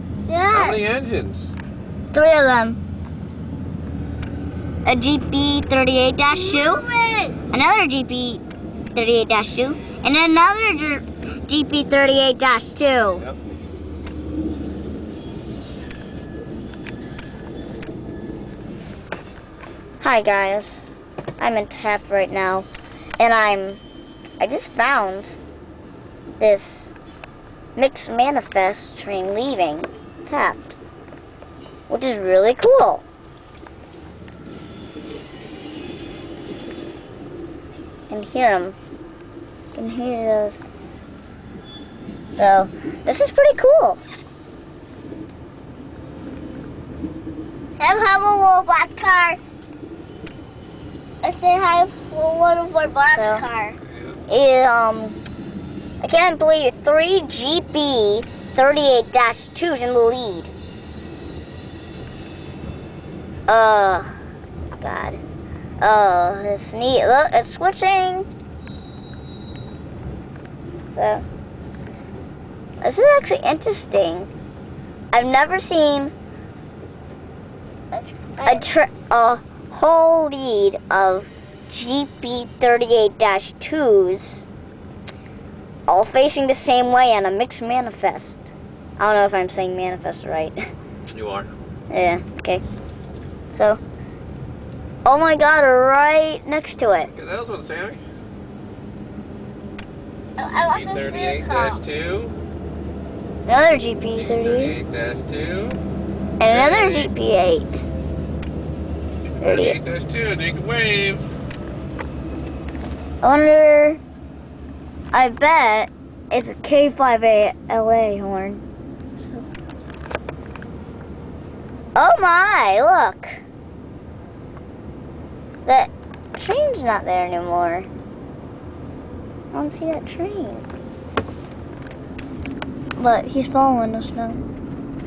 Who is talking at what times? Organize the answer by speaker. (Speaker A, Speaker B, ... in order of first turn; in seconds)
Speaker A: 0.3-0.9, 6.3-7.4, 47.8-49.4, 51.2-53.8, 77.9-78.7, 100.4-101.8
Speaker B: 0.5-1.5, 53.9-54.2, 91.1-91.5, 97.1-98.0, 100.7-102.3, 104.1-105.8, 106.4-107.1, 109.4-111.2
Speaker C: 2.1-2.8, 4.8-6.8, 7.5-8.4, 8.9-13.2, 20.0-22.7, 23.2-23.8, 24.4-25.4, 26.4-26.9, 27.8-30.7, 31.9-33.0, 38.1-38.8, 39.7-40.7, 42.3-44.0, 53.1-53.4, 54.3-55.2, 56.0-60.5, 63.5-64.1, 64.8-65.2, 65.8-68.2, 70.9-71.2, 72.8-74.3, 75.1-76.1, 78.4-84.4, 85.9-90.6, 91.9-92.6, 93.5-93.8, 95.0-97.1, 103.5-104.8, 106.4-107.7, 109.4-109.8, 113.2-114.0, 115.1-118.6, 122.0-123.4, 125.7-127.9, 129.5-130.7, 133.0-134.4